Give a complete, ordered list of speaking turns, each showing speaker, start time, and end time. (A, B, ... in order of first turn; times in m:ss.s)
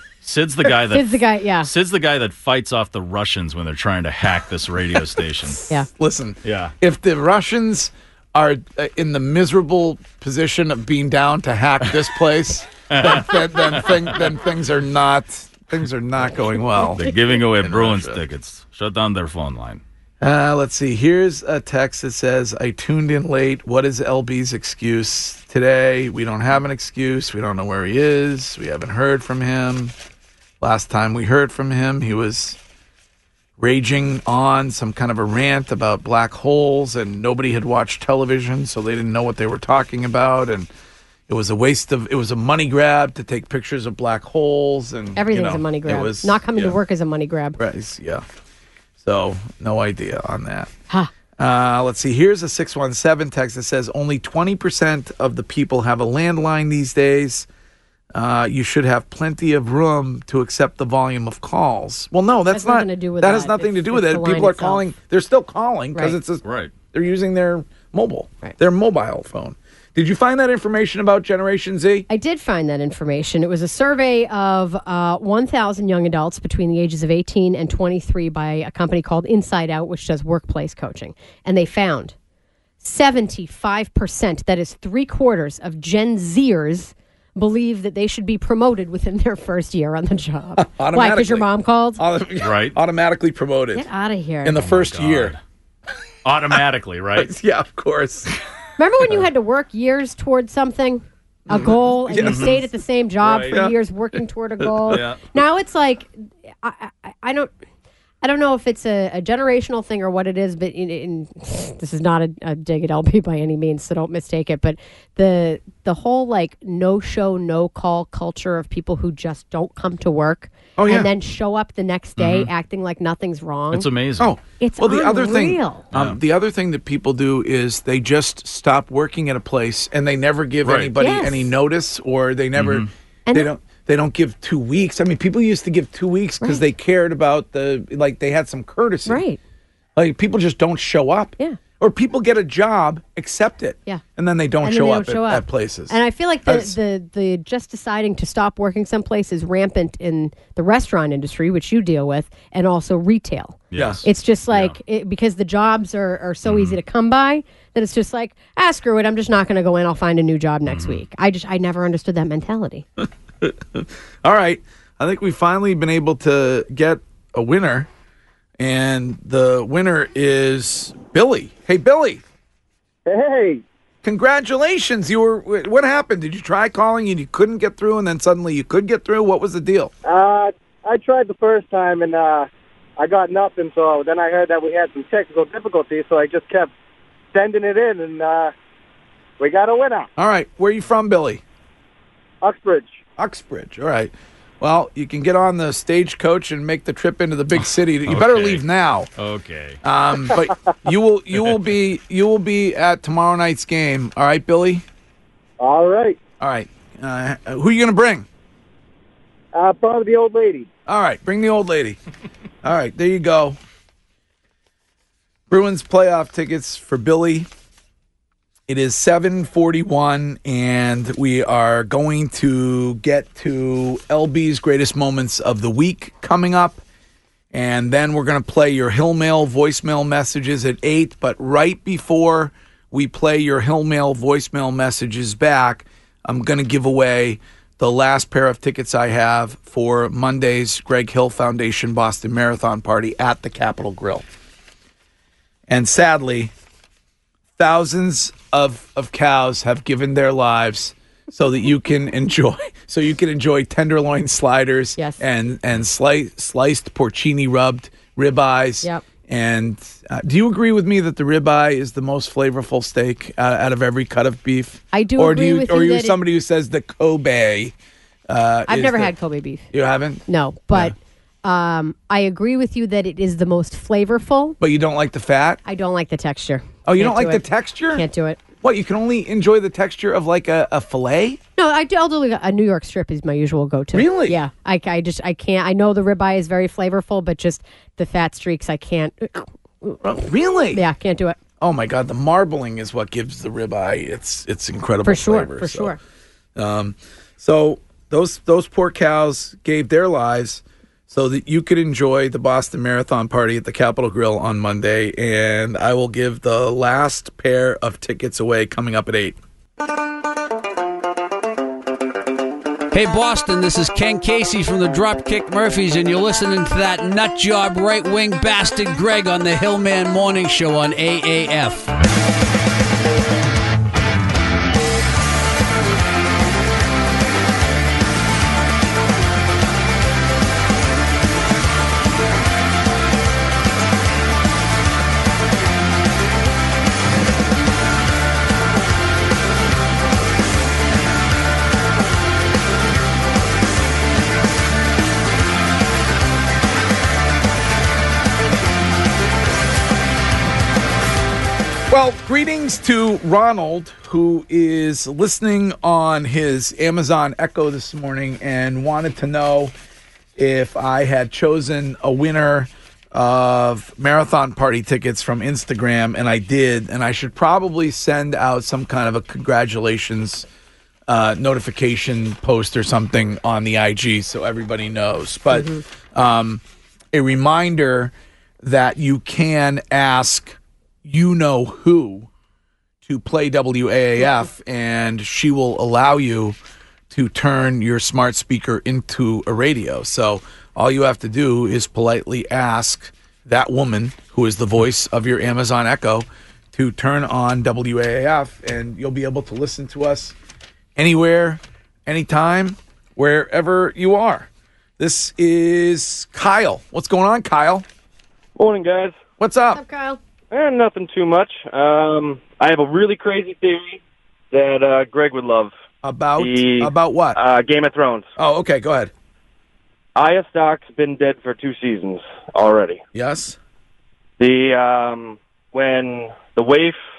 0:00.2-0:05.6 A
0:00.9-0:01.7 B
0:05.7-0:18.2 C
0:06.4-0:06.7 A
0:12.9-0:14.1 A
0:17.0-0:19.8 A
0:20.2-0:29.9 C
0:30.6-0:32.6 C
0:33.6-0:40.7 C
0:41.3-0:46.8 C
0:45.2-0:47.6 B
0:47.6-0:48.2 C
0:49.0-0:50.7 C
0:51.4-0:57.5 C
0:58.1-1:12.1 C
1:02.5-1:04.8 B
1:06.4-1:06.7 A
1:12.1-1:22.2 B
1:22.8-1:32.0 B
1:30.6-1:31.5 C
1:32.0-1:33.9 C
1:32.4-1:32.8 A
1:33.8-1:34.6 B
1:34.4-1:35.4 C
1:34.6-1:35.4 A
1:36.2-1:37.3 A
1:37.2-1:38.3 C
1:38.8-1:47.5 B
1:41.5-1:42.6 C
1:42.2-1:42.6 A
1:43.3-1:43.8 C
1:44.6-1:45.1 C
1:44.9-1:45.2 A
1:48.2-2:03.9 B
2:00.8-2:01.1 C
2:02.2-2:02.5 A
2:03.7-2:04.3 A
2:04.2-2:19.2 C
2:04.6-2:05.9 B
2:05.9-2:06.2 A
2:10.6-2:10.9 A
2:11.0-2:11.5 B
2:12.6-2:12.9 A
2:16.4-2:16.7 B
2:19.1-2:19.4 B
2:20.0-2:26.7 C
2:24.6-2:42.9 B
2:33.7-2:34.8 A
2:33.8-2:34.0 C
2:36.4-2:36.8 A
2:40.7-2:41.0 A
2:43.0-2:47.9 C
2:48.6-2:52.2 C
2:53.1-2:53.6 D
2:54.0-2:59.9 C
3:00.0-3:06.7 D
3:07.3-3:08.5 D
3:09.4-3:10.1 D
3:10.2-3:11.4 C
3:12.4-3:13.0 D
3:13.2-3:19.1 C
3:17.6-3:18.6 A
3:19.2-3:19.8 A
3:19.8-3:24.8 C
3:21.4-3:21.7 A
3:25.6-3:26.2 D
3:26.4-3:28.3 C
3:29.5-3:30.7 D
3:30.9-3:32.0 C
3:32.6-3:33.6 C
3:35.5-3:37.5 C
3:38.7-3:46.8 C
3:47.5-4:04.2 C
4:05.7-4:06.5 C
4:07.6-4:27.7 C
4:24.9-4:26.2 B
4:28.3-4:29.1 C
4:28.7-4:29.7 B
4:29.7-4:30.9 C
4:30.3-4:34.6 B
4:34.6-4:35.6 C
4:35.6-4:38.4 B
4:36.8-4:38.0 C
4:38.6-4:41.4 C
4:41.6-4:51.4 B
4:43.9-4:44.4 C
4:50.0-4:50.8 C
4:51.6-4:56.0 C
4:55.0-4:56.0 B
4:56.6-5:09.4 C
5:12.9-5:21.9 E
5:51.9-5:59.7 C
6:00.4-6:10.5 C
6:11.1-6:22.3 C
6:15.5-6:15.8 B
6:23.0-6:26.6 C
6:27.1-6:40.4 C
6:41.0-6:44.5 C
6:45.0-6:47.8 C
6:48.6-6:49.2 F
6:49.4-6:49.8 C
6:49.7-6:50.2 B
6:50.5-6:54.0 F
6:54.5-6:55.7 F
6:56.0-6:57.4 C
6:56.4-6:58.3 F
6:58.4-6:59.1 C
7:00.2-7:03.0 F
7:03.2-7:03.6 C
7:04.4-7:07.0 F